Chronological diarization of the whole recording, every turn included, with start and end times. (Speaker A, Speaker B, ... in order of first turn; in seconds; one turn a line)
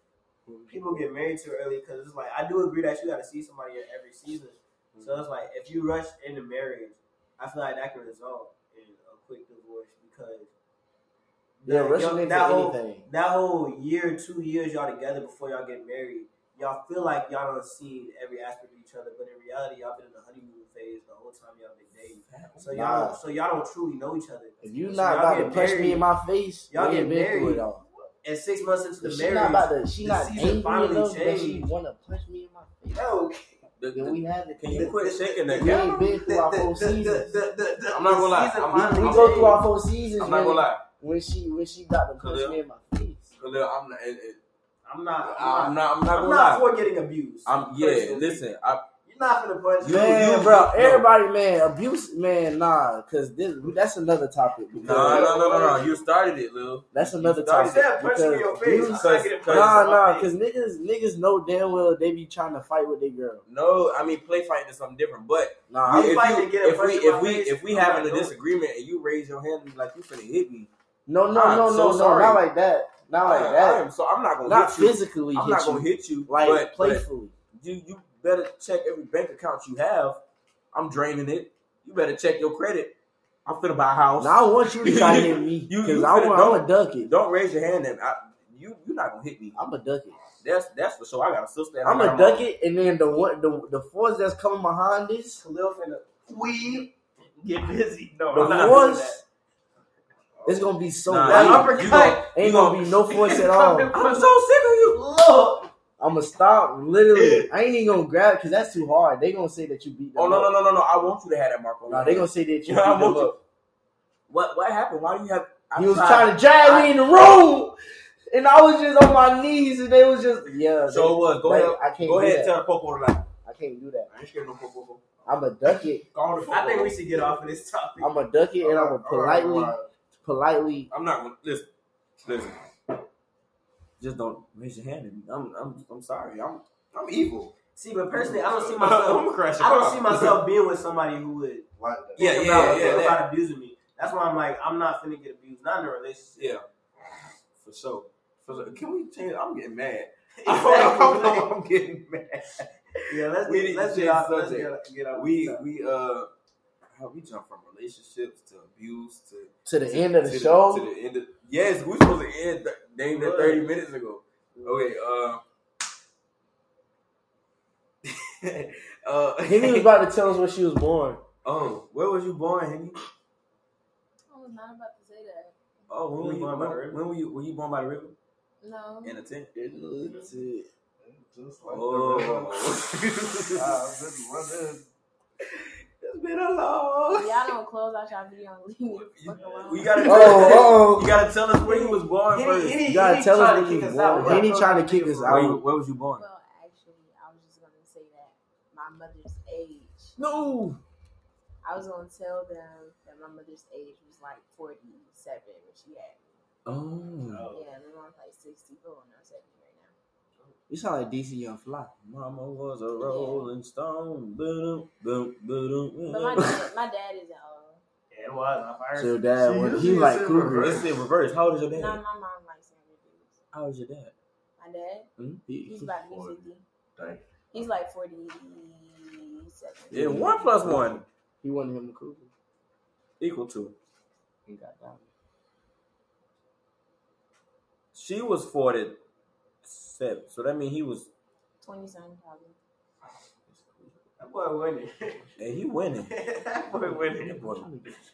Speaker A: 0.5-0.8
Speaker B: 0.7-10.5
Speaker C: 5.0-5.2
Speaker B: 11.6-26.1
Speaker D: 11.7-13.1
Speaker C: 22.0-23.0
Speaker D: 22.7-23.2
Speaker D: 24.6-27.8
Speaker B: 26.7-27.6
Speaker B: 28.2-31.7
Speaker D: 29.0-33.0
Speaker B: 32.9-33.6
Speaker C: 33.8-35.9
Speaker D: 33.9-34.9
Speaker B: 34.7-39.6
Speaker D: 35.5-37.4
Speaker C: 37.9-40.8
Speaker D: 38.9-43.3
Speaker C: 42.2-42.6
Speaker C: 43.4-44.4
Speaker B: 44.9-48.4
Speaker C: 45.2-46.7
Speaker C: 47.5-48.8
Speaker B: 49.1-50.2
Speaker C: 49.8-51.1
Speaker D: 49.8-55.4
Speaker C: 54.8-57.9
Speaker B: 54.9-55.9
Speaker D: 56.9-63.4
Speaker B: 57.6-60.3
Speaker C: 58.8-59.9
Speaker C: 63.5-70.7
Speaker D: 65.7-66.2
Speaker B: 65.9-68.3
Speaker D: 71.1-73.8
Speaker C: 71.3-72.4
Speaker C: 73.2-80.2
Speaker D: 74.5-77.3
Speaker C: 80.7-82.9
Speaker C: 83.5-89.6
Speaker D: 84.2-87.1
Speaker D: 89.5-90.2
Speaker C: 90.4-92.5
Speaker D: 91.8-95.4
Speaker B: 95.4-99.2
Speaker D: 98.3-99.2
Speaker C: 98.3-98.9
Speaker A: 100.4-100.7
Speaker D: 100.5-103.9
Speaker C: 101.1-103.0
Speaker B: 101.3-102.2
Speaker B: 103.1-104.3
Speaker C: 103.9-105.6
Speaker D: 106.0-110.5
Speaker C: 110.2-113.4
Speaker D: 111.9-113.3
Speaker C: 114.3-116.9
Speaker D: 115.8-117.8
Speaker D: 118.3-122.5
Speaker C: 120.9-123.3
Speaker D: 123.5-124.1
Speaker C: 124.1-125.1
Speaker D: 125.2-126.0
Speaker C: 126.1-127.6
Speaker B: 126.5-128.2
Speaker D: 128.0-130.9
Speaker A: 128.6-129.9
Speaker C: 130.9-131.7
Speaker C: 132.2-132.6
Speaker C: 134.0-137.6
Speaker B: 137.8-146.5
Speaker C: 138.2-140.4
Speaker A: 141.8-143.1
Speaker C: 142.2-143.3
Speaker C: 146.4-146.6
Speaker C: 147.6-156.3
Speaker B: 150.4-151.5
Speaker B: 153.1-155.6
Speaker C: 156.9-165.4
Speaker D: 159.7-160.9
Speaker B: 163.1-163.7
Speaker B: 164.6-164.9
Speaker C: 168.1-169.9
Speaker D: 169.4-171.2
Speaker C: 171.4-173.0
Speaker E: 174.3-175.6
Speaker C: 175.9-178.2
Speaker B: 176.2-177.0
Speaker E: 178.6-179.3
Speaker C: 179.0-179.5
Speaker D: 179.5-180.7
Speaker A: 181.0-182.7
Speaker C: 181.7-183.8
Speaker A: 183.5-184.9
Speaker C: 185.4-187.5
Speaker E: 187.1-190.4
Speaker C: 188.9-192.8
Speaker A: 189.4-189.9
Speaker B: 189.9-190.7
Speaker D: 190.0-191.1
Speaker B: 191.5-195.5
Speaker D: 192.8-195.6
Speaker C: 195.3-196.2
Speaker E: 196.2-200.2
Speaker C: 200.2-200.8
Speaker E: 201.6-206.4
Speaker C: 206.7-207.5
Speaker B: 207.2-207.7
Speaker E: 207.5-209.9
Speaker D: 210.7-211.9
Speaker C: 212.0-216.6
Speaker E: 213.0-213.5
Speaker E: 216.0-217.8
Speaker B: 218.1-219.2
Speaker D: 218.9-220.8
Speaker A: 219.4-220.9
Speaker C: 220.6-222.0
Speaker E: 221.7-223.4
Speaker C: 223.5-224.1
Speaker E: 224.6-226.6
Speaker C: 225.2-225.4
Speaker D: 225.5-225.8
Speaker A: 225.7-227.6
Speaker E: 227.5-230.3
Speaker D: 229.9-232.3
Speaker C: 229.9-231.0
Speaker C: 233.2-233.8
Speaker D: 234.5-235.1
Speaker C: 237.9-239.0
Speaker C: 239.6-241.1
Speaker E: 241.6-242.6
Speaker C: 243.6-243.9
Speaker B: 244.2-245.3
Speaker C: 245.4-246.1
Speaker B: 246.1-247.4
Speaker C: 247.2-247.7
Speaker D: 247.4-247.9